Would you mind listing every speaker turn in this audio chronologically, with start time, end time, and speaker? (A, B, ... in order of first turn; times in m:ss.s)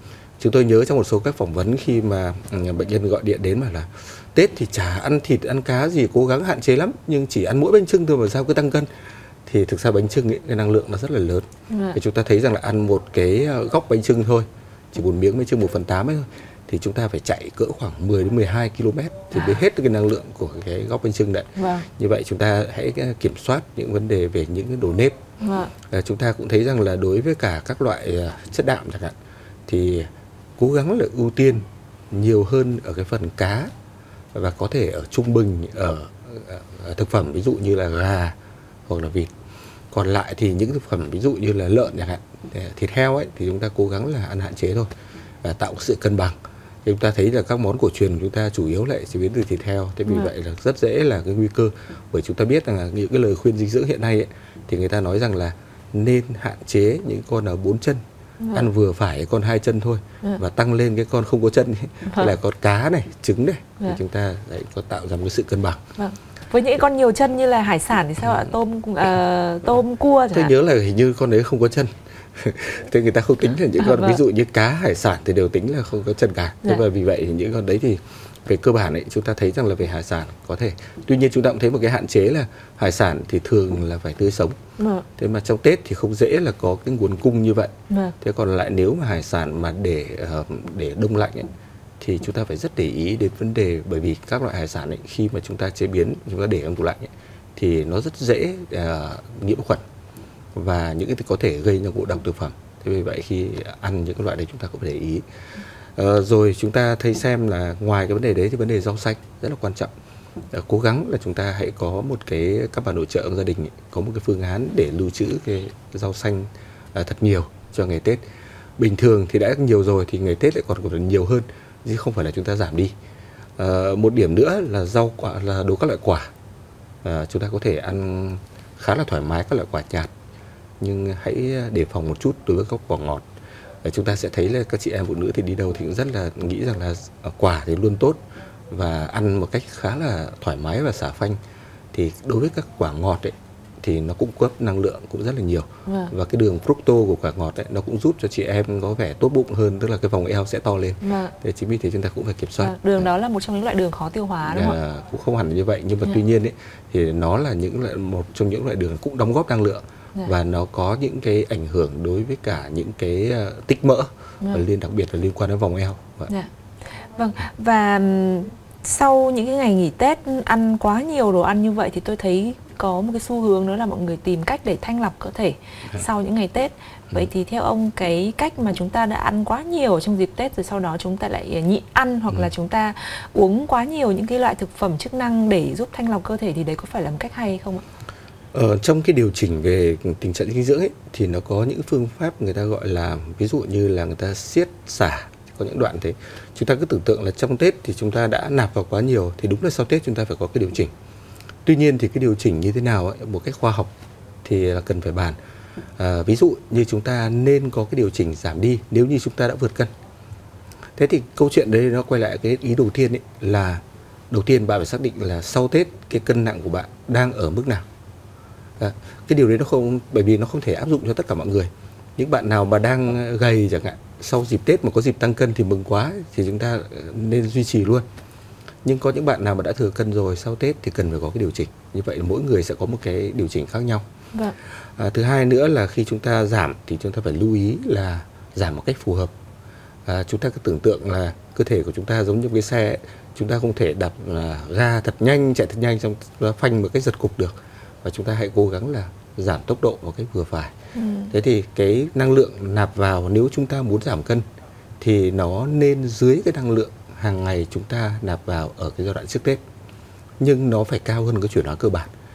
0:00.4-0:08.9 A
0:09.5-0:25.2 A
0:11.7-0:12.0 B
0:21.6-0:21.9 B
0:25.4-0:25.7 B
0:25.9-0:29.1 A
0:29.7-0:33.7 A
0:34.3-0:38.4 A
0:38.9-0:39.3 A
0:39.9-0:44.9 A
0:45.4-0:58.0 A
0:58.4-0:58.7 B
0:58.5-1:05.8 A
1:02.1-1:02.4 B
1:06.0-1:10.5 B
1:10.3-1:24.6 A
1:13.8-1:14.2 B
1:24.8-1:25.1 B
1:25.2-1:31.5 A
1:27.9-1:28.2 B
1:32.0-1:39.8 A
1:40.6-1:45.2 A
1:46.0-1:49.9 A
1:50.5-1:58.2 A
1:58.8-2:02.9 A
2:03.6-2:06.3 A
2:07.0-2:10.1 A
2:10.8-2:13.2 A
2:13.8-2:21.4 A
2:21.9-2:33.1 A
2:25.9-2:26.1 B
2:31.0-2:31.3 B
2:32.6-2:34.8 B
2:34.5-2:46.3 A
2:47.2-3:07.8 B
3:08.5-3:20.9 A
3:21.6-3:23.9 A
3:24.4-3:25.4 A
3:26.0-3:29.9 A
3:31.0-3:37.8 A
3:38.8-3:48.0 A
3:48.8-3:54.0 A
3:55.0-3:59.3 A
4:00.1-4:10.7 A
4:11.0-4:11.3 B
4:11.3-4:14.4 A
4:15.0-4:19.6 A
4:20.4-4:22.1 A